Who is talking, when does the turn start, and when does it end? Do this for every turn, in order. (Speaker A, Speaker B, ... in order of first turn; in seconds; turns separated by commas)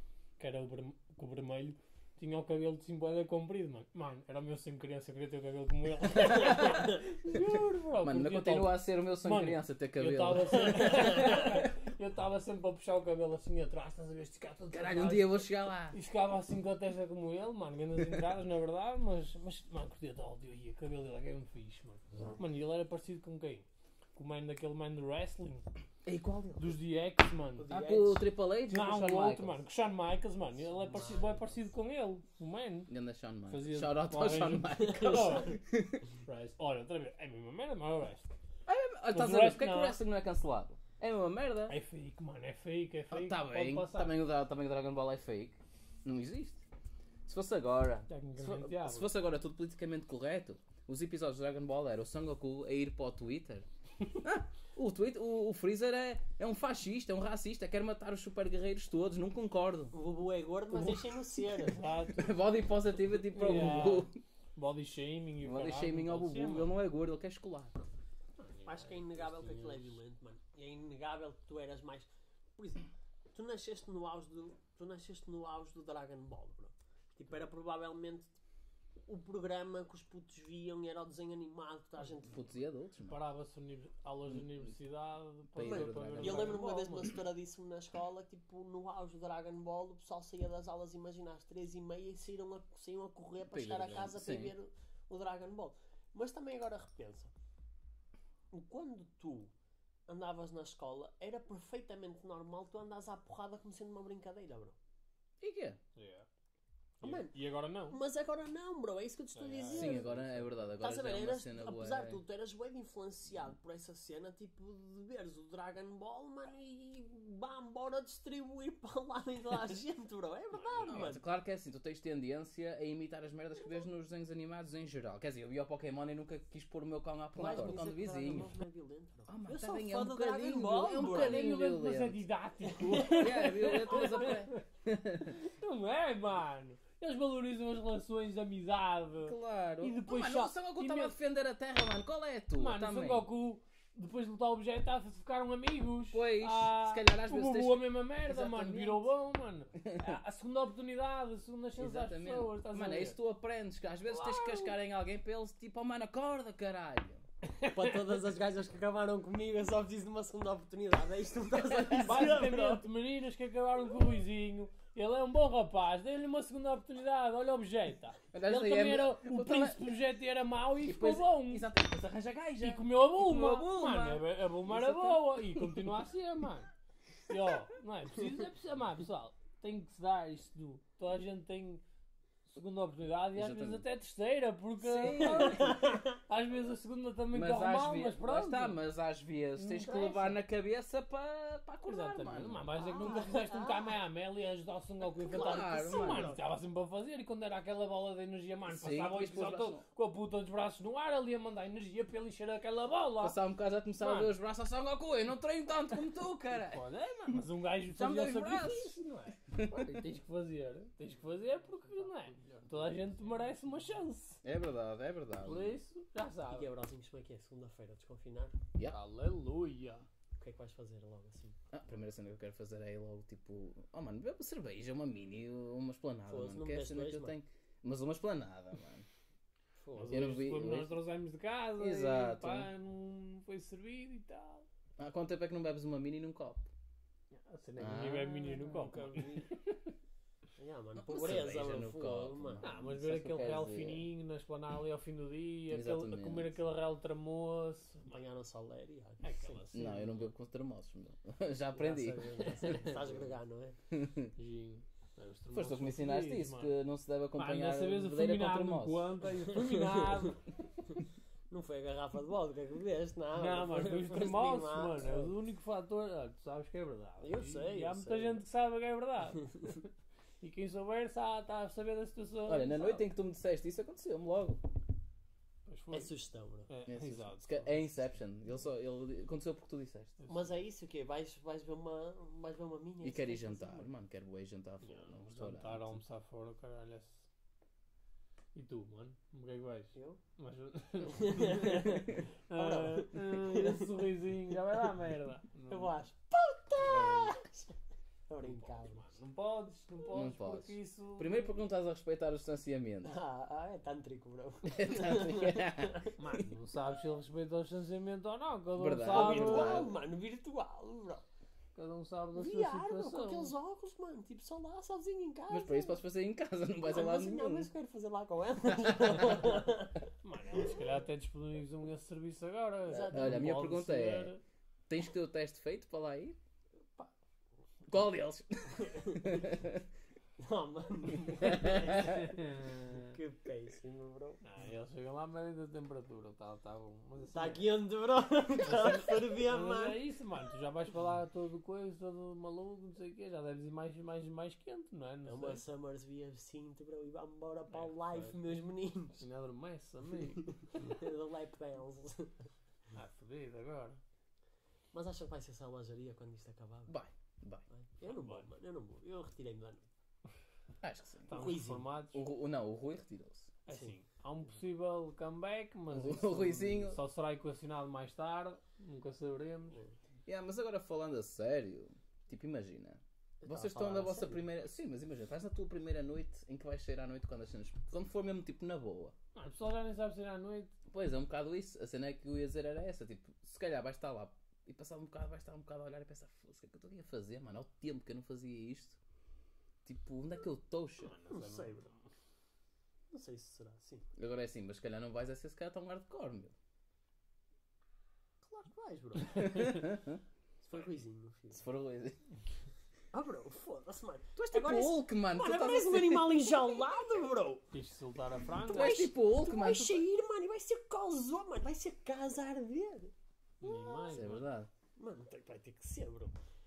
Speaker A: 0.4-25.7, Speaker B: 6.3-7.0, Speaker B: 8.0-11.0, Speaker C: 10.7-11.5, Speaker B: 14.7-15.9, Speaker B: 26.0-26.8, Speaker A: 26.6-27.7, Speaker C: 27.6-28.2, Speaker B: 27.7-29.6, Speaker A: 28.7-32.9, Speaker C: 30.8-31.4, Speaker B: 32.9-36.0, Speaker A: 33.5-35.6, Speaker C: 34.8-35.5, Speaker A: 36.2-38.3, Speaker B: 38.7-41.7, Speaker A: 39.1-40.0, Speaker A: 41.7-44.1, Speaker B: 43.1-46.6, Speaker B: 47.3-53.6, Speaker A: 48.1-49.1, Speaker B: 54.2-59.9, Speaker C: 59.9-61.8, Speaker A: 60.7-62.4, Speaker B: 62.1-64.2, Speaker A: 63.3-66.7, Speaker B: 65.4-67.8, Speaker A: 68.4-70.0, Speaker C: 68.7-78.4, Speaker C: 79.0-82.5, Speaker B: 82.2-83.2, Speaker A: 83.1-87.1, Speaker B: 84.3-84.7, Speaker B: 85.5-86.6, Speaker C: 85.6-97.3, Speaker B: 93.4-94.5, Speaker C: 98.5-99.5, Speaker C: 100.1-104.8, Speaker B: 105.4-105.8, Speaker A: 105.9-106.2, Speaker A: 107.0-108.0, Speaker C: 107.0-107.3, Speaker C: 107.9-110.1, Speaker A: 109.3-110.5, Speaker B: 109.7-112.2, Speaker C: 110.8-121.2, Speaker A: 120.5-121.0, Speaker B: 120.9-128.6, Speaker C: 127.3-131.4, Speaker B: 129.3-132.2, Speaker A: 130.9-134.6, Speaker C: 132.7-134.3, Speaker B: 133.2-135.3, Speaker A: 135.2-141.2, Speaker B: 139.2-143.3, Speaker A: 142.6-153.2, Speaker B: 146.1-149.1, Speaker B: 149.8-150.1, Speaker B: 151.8-157.2, Speaker A: 154.1-154.8, Speaker C: 157.7-162.8, Speaker B: 161.6-162.2, Speaker A: 162.0-171.7, Speaker B: 168.3-169.8, Speaker B: 170.8-175.8, Speaker A: 172.6-176.7, Speaker A: 177.3-181.8, Speaker A: 182.5-188.8, Speaker B: 183.3-183.8, Speaker B: 184.8-185.8, Speaker C: 185.3-186.2, Speaker B: 187.3-192.8, Speaker A: 189.6-189.9, Speaker C: 189.8-190.4, Speaker A: 191.8-203.4, Speaker C: 192.8-194.0, Speaker C: 195.1-196.4, Speaker B: 195.2-196.3, Speaker B: 198.7-199.8, Speaker B: 203.2-208.9, Speaker A: 204.0-204.3, Speaker A: 206.6-214.4, Speaker B: 209.5-209.9, Speaker B: 214.4-215.8, Speaker A: 215.4-216.7, Speaker C: 216.5-218.6, Speaker A: 218.8-220.1, Speaker C: 220.4-221.6, Speaker B: 221.7-229.1, Speaker C: 226.3-227.4, Speaker C: 229.8-230.2, Speaker A: 229.9-234.7, Speaker B: 230.1-231.0, Speaker B: 231.8-232.7, Speaker B: 235.0-236.7, Speaker A: 237.3-239.9, Speaker B: 237.8-238.4, Speaker C: 238.4-239.5, Speaker C: 240.6-242.7, Speaker B: 241.0-244.1, Speaker A: 242.6-248.2, Speaker B: 245.7-246.6, Speaker C: 248.1-249.6, Speaker A: 249.2-250.3, Speaker B: 249.7-253.1, Speaker C: 251.7-253.8, Speaker A: 252.4-252.9, Speaker B: 253.9-254.3, Speaker A: 254.3-256.8, Speaker B: 255.5-259.1, Speaker A: 257.3-260.5, Speaker C: 259.7-260.2, Speaker C: 261.5-265.3, Speaker A: 263.3-269.9, Speaker C: 267.2-268.4, Speaker A: 270.4-273.1, Speaker B: 272.4-274.6, Speaker A: 275.6-276.1, Speaker C: 275.9-276.7, Speaker A: 276.7-277.8, Speaker B: 276.9-280.1, Speaker A: 280.2-280.5, Speaker C: 280.3-283.9, Speaker B: 283.0-286.0, Speaker A: 284.8-287.3, Speaker A: 288.5-295.9, Speaker C: 289.9-290.2, Speaker C: 291.0-293.9, Speaker C: 295.7-297.7, Speaker A: 296.8-297.3, Speaker C: 298.3-299.1, Speaker A: 298.4-301.6, Speaker B: 300.1-303.2, Speaker C: 303.0-306.1, Speaker B: 304.6-306.4, Speaker A: 306.2-309.9, Speaker B: 308.8-309.9, Speaker C: 309.1-311.2, Speaker A: 311.7-313.5, Speaker C: 312.3-316.0, Speaker B: 315.5-317.7, Speaker C: 316.8-320.0, Speaker A: 320.2-324.4, Speaker C: 322.9-323.4, Speaker B: 323.0-324.3, Speaker B: 324.9-326.4, Speaker B: 327.9-329.8, Speaker C: 328.8-329.3, Speaker C: 330.4-332.3, Speaker B: 331.5-332.0, Speaker A: 332.0-333.1, Speaker C: 332.9-334.4, Speaker A: 334.4-337.7, Speaker C: 337.3-340.0, Speaker A: 338.6-345.6, Speaker C: 345.2-349.2, Speaker A: 347.7-348.5, Speaker A: 349.2-350.9, Speaker C: 350.7-352.3, Speaker A: 352.9-354.0, Speaker C: 354.9-356.9, Speaker B: 356.9-357.6, Speaker C: 357.7-359.9, Speaker A: 358.0-358.4, Speaker B: 360.8-361.4, Speaker A: 361.3-362.2, Speaker C: 361.3-361.9, Speaker B: 362.1-363.5, Speaker A: 363.6-369.8, Speaker C: 363.7-363.9, Speaker B: 365.9-367.0, Speaker B: 370.2-379.1, Speaker C: 373.4-374.5, Speaker A: 379.3-380.7, Speaker B: 380.9-389.0, Speaker B: 389.8-391.1, Speaker A: 391.0-392.1, Speaker C: 391.3-391.9, Speaker C: 393.1-394.1, Speaker B: 394.1-396.5, Speaker C: 398.4-399.5, Speaker B: 399.3-400.2, Speaker C: 400.6-401.6, Speaker B: 401.5-402.2, Speaker C: 403.1-407.6, Speaker B: 404.4-406.7, Speaker A: 407.7-409.1, Speaker B: 408.7-410.1, Speaker C: 408.7-414.2, Speaker A: 413.6-414.5, Speaker B: 414.1-414.7, Speaker C: 414.9-416.3